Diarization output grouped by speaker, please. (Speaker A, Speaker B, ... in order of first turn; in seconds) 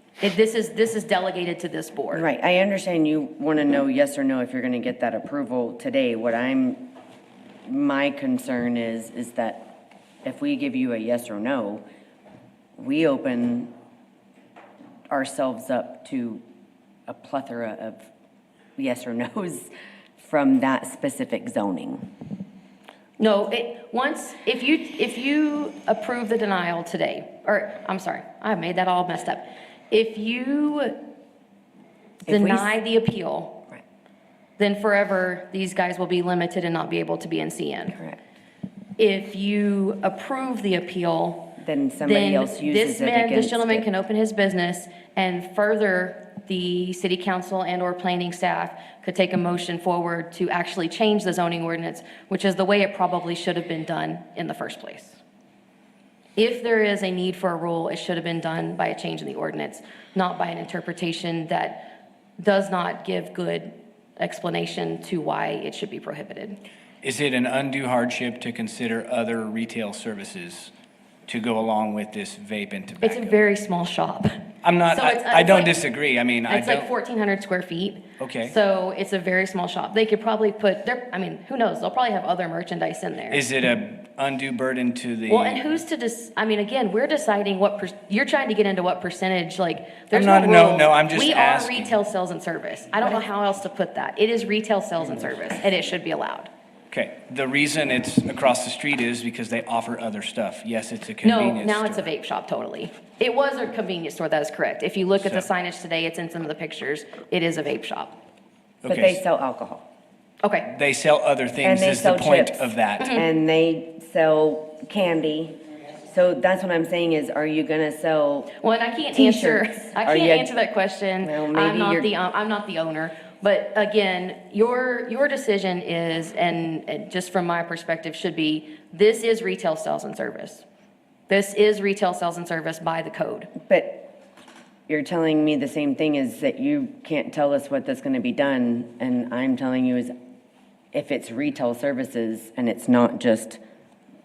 Speaker A: 0.2-2.2, 23.2-31.0, 32.3-33.6, 34.6-38.0, 39.0-55.2, 56.4-61.9, 62.4-66.6, 73.0-74.3, 74.9-75.8, 76.5-83.4, 85.3-96.5, 101.2-108.2, 110.4-110.7, 118.6-130.7, 131.3-133.5
Speaker B: 2.1-6.8, 7.7-9.7, 10.2-11.8, 12.8-13.7, 15.1-16.4, 17.1-18.1, 18.8-22.0, 32.3-32.7, 41.6-43.9, 108.9-109.8, 111.6-118.5, 119.1-120.5, 121.2-122.1, 133.7-134.1, 134.9-140.1, 140.9-143.6
Speaker C: 67.0-70.7, 71.3-73.4, 74.6-76.9, 78.2-78.5, 83.3-85.8, 90.1-92.0, 96.9-102.1, 108.8-109.2, 110.7-113.2